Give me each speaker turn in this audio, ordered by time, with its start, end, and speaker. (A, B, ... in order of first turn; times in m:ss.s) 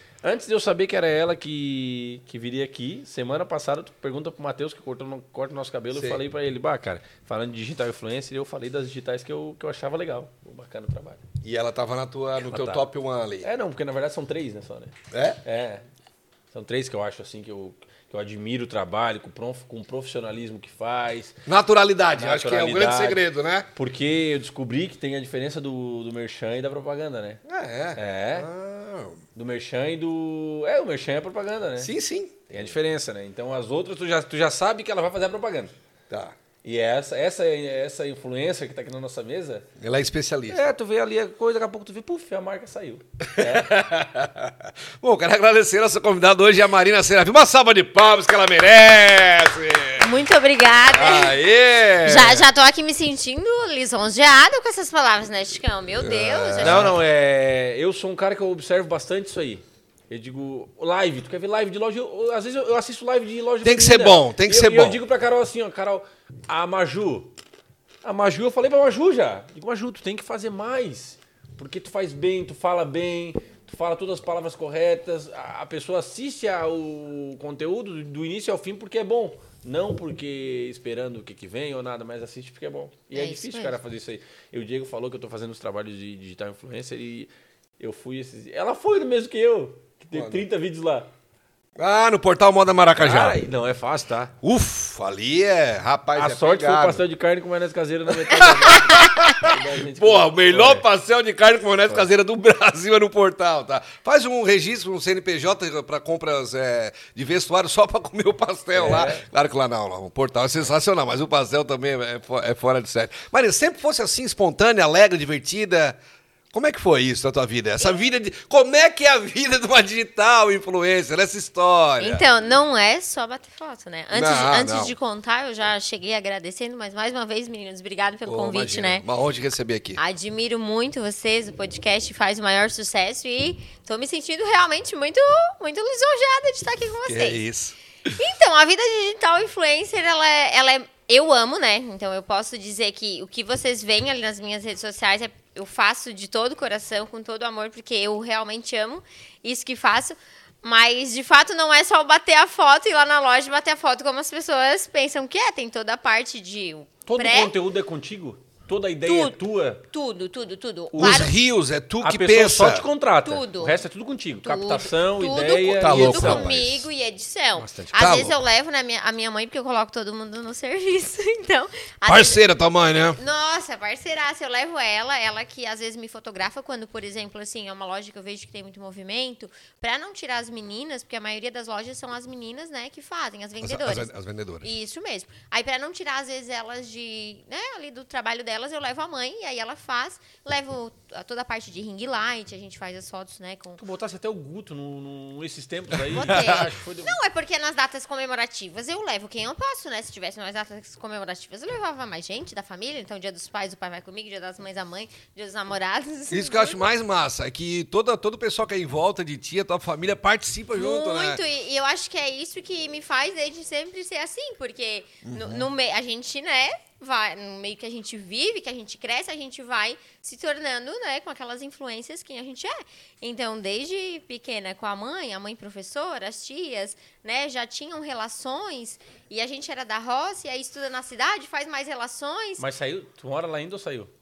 0:00.2-0:11.2 A
0:05.9-0:06.2 B
0:11.4-0:13.5 B
0:12.4-0:12.8 A
0:13.4-0:14.9 A
0:15.1-0:15.4 B
0:15.4-0:15.8 A
0:16.5-0:21.3 A
0:21.4-0:23.7 B
0:22.1-0:27.4 A
0:27.4-0:29.2 B
0:28.0-0:28.5 A
0:29.3-0:31.9 A
0:31.8-0:32.5 B
0:32.5-0:35.7 A
0:36.1-0:36.4 B
0:36.6-0:39.6 A
0:39.8-0:40.7 B
0:40.5-0:43.7 A
0:43.2-0:50.1 B
0:50.0-0:51.4 C
0:50.9-0:52.4 B
0:52.0-0:56.9 C
0:56.0-0:57.0 B
0:56.6-1:07.3 A
1:03.6-1:05.0 B
1:08.0-1:31.1 A
1:23.1-1:23.8 C
1:30.1-1:30.4 B
1:31.8-1:33.4 B
1:33.0-1:34.3 A
1:34.4-1:37.0 B
1:36.2-1:40.8 A
1:38.1-1:56.0 B
1:48.7-1:49.2 A
1:56.5-2:02.3 B
1:57.8-1:58.0 C
2:02.0-2:09.0 C
2:04.1-2:04.9 B
2:08.2-2:10.0 B
2:10.0-2:17.4 C
2:17.0-2:18.1 B
2:18.2-2:37.5 C
2:37.0-2:39.8 A
2:39.0-2:39.4 C
2:39.9-2:41.3 C
2:40.9-2:42.8 B
2:41.0-2:41.2 A
2:42.0-2:46.6 A
2:43.2-2:43.8 C
2:44.4-2:52.4 C
2:45.8-2:46.8 B
2:47.6-2:48.1 A
2:47.9-2:48.4 B
2:52.0-2:53.2 B
2:53.2-3:13.8 C
3:03.6-3:04.7 B
3:13.8-3:17.2 A
3:16.0-3:26.8 C
3:16.3-3:16.6 B
3:26.3-3:31.4 B
3:30.7-3:52.6 C
3:35.2-3:35.7 B
3:52.6-3:54.1 A